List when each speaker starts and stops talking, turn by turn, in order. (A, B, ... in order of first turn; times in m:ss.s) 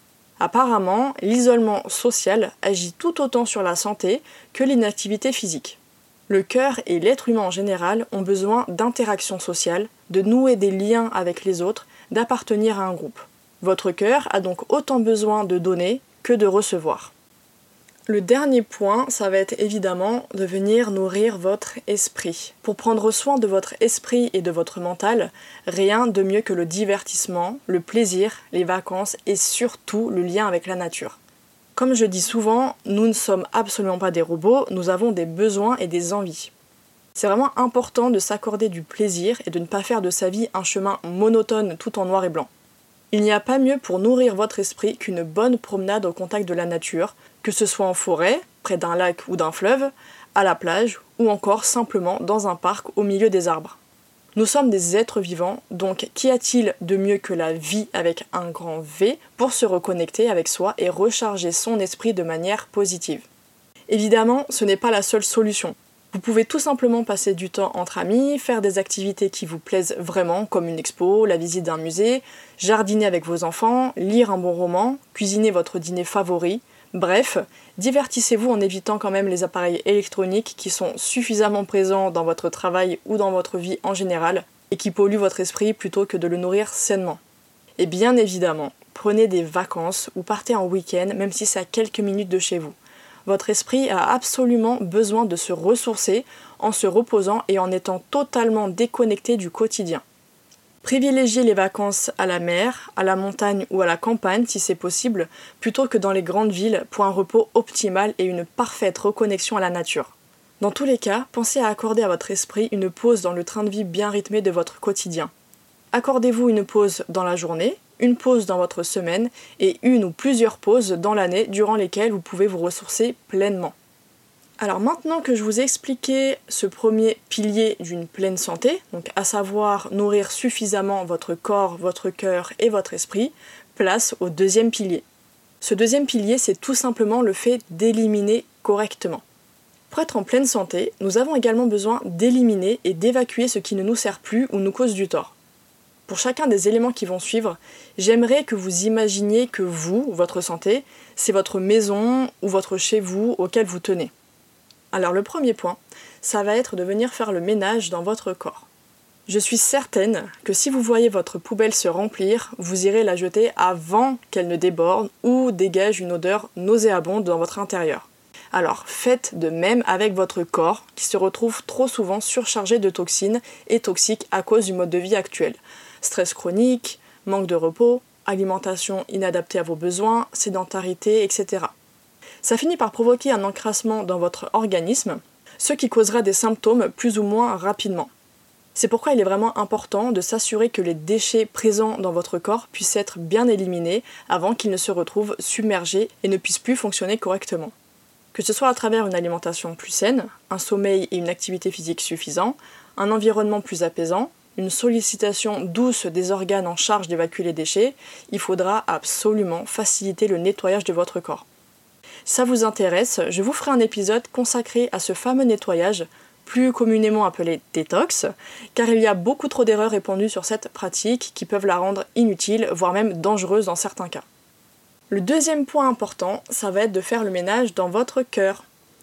0:00.4-0:17.1 A
0:18.1-0:31.2 A
0:31.8-0:36.5 A
0:37.1-0:42.5 A
0:43.1-0:53.8 A
0:54.3-1:03.3 A
1:03.9-1:27.2 A
1:27.8-1:40.0 A
1:40.8-1:55.3 A
1:55.9-2:03.7 A
2:04.6-2:15.0 A
2:15.6-2:19.2 A
2:19.9-2:25.3 A
2:26.1-2:34.1 A
2:34.9-2:38.7 A
2:39.3-3:01.7 A
3:02.4-3:08.1 A
3:08.7-3:17.7 A
3:18.3-3:31.4 A
3:32.2-3:44.2 A
3:45.1-3:48.6 A